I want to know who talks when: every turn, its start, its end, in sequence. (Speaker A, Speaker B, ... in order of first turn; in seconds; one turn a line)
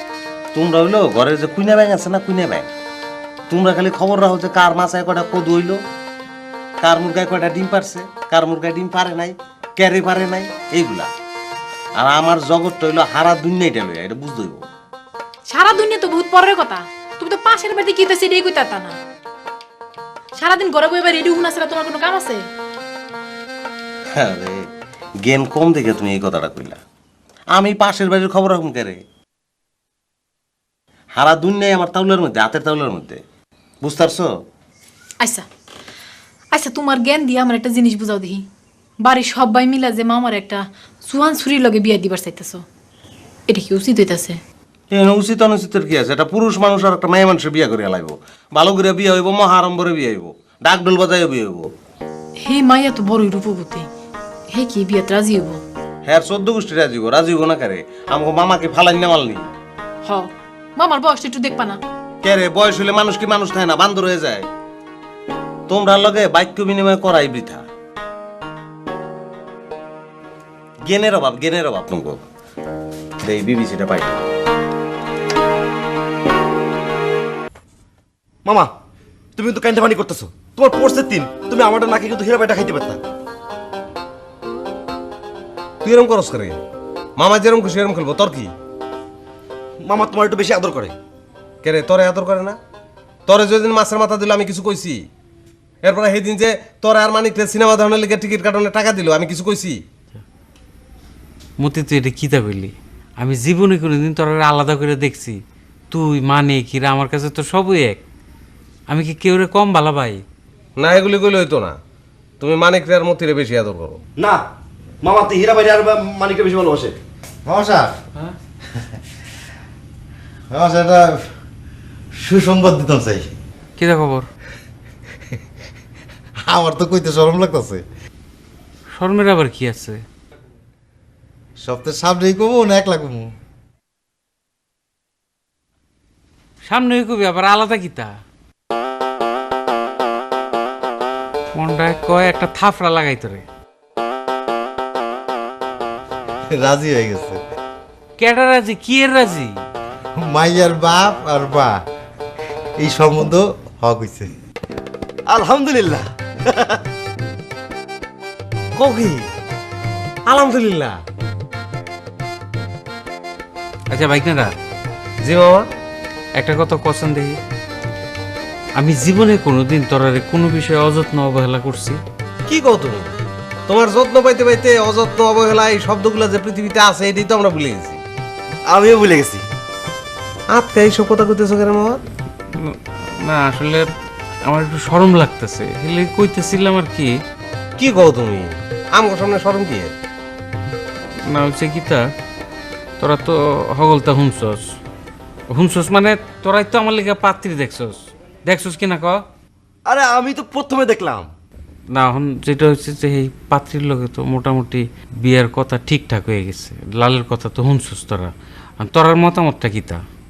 Speaker A: 0.5-2.7
Speaker A: 3.5-5.8
Speaker A: 6.8-11.1
Speaker A: 11.9-14.7
Speaker B: 15.5-18.9
Speaker B: 20.4-22.4
Speaker A: 24.1-24.7
Speaker A: 25.2-26.8
Speaker A: 27.5-29.0
Speaker A: 31.1-33.2
Speaker A: 33.8-34.3
Speaker B: 36.5-38.4
Speaker B: 39.0-42.6
Speaker B: 43.5-44.4
Speaker A: 44.9-51.7
Speaker B: 52.4-53.9
Speaker B: 54.5-55.6
Speaker A: 56.0-59.5
Speaker B: 60.0-61.8
Speaker A: 62.2-64.5
Speaker A: 65.7-67.6
Speaker A: 70.9-72.2
Speaker A: 73.2-74.2
Speaker C: 78.4-78.7
Speaker C: 79.3-83.0
Speaker A: 85.8-86.6
Speaker A: 87.2-88.5
Speaker C: 89.8-90.9
Speaker A: 91.6-92.6
Speaker A: 93.2-95.0
Speaker A: 95.8-99.8
Speaker D: 101.6-105.4
Speaker D: 105.9-108.0
Speaker D: 108.9-110.2
Speaker A: 110.8-111.8
Speaker A: 112.4-114.0
Speaker C: 115.0-117.0
Speaker E: 117.5-117.9
Speaker E: 120.5-121.2
Speaker E: 122.2-123.3
Speaker D: 123.8-124.3
Speaker E: 126.5-127.8
Speaker D: 128.9-130.0
Speaker E: 131.6-133.3
Speaker D: 136.7-138.1
Speaker D: 141.5-143.4
Speaker E: 146.5-147.4
Speaker D: 148.2-149.5
Speaker E: 150.2-151.7
Speaker E: 152.8-154.3
Speaker C: 155.3-156.8
Speaker A: 158.7-159.3
Speaker A: 160.2-161.0
Speaker D: 163.9-164.5
Speaker A: 165.2-165.7
Speaker D: 166.4-167.4
Speaker D: 168.8-172.0
Speaker A: 172.4-173.1
Speaker A: 173.7-178.0
Speaker C: 178.7-179.4
Speaker A: 180.5-182.0
Speaker D: 182.5-183.9
Speaker D: 184.5-187.1
Speaker A: 187.8-189.9
Speaker D: 191.2-192.1
Speaker D: 193.0-194.6
Speaker D: 195.5-199.2
Speaker C: 199.9-201.3
Speaker D: 201.9-210.0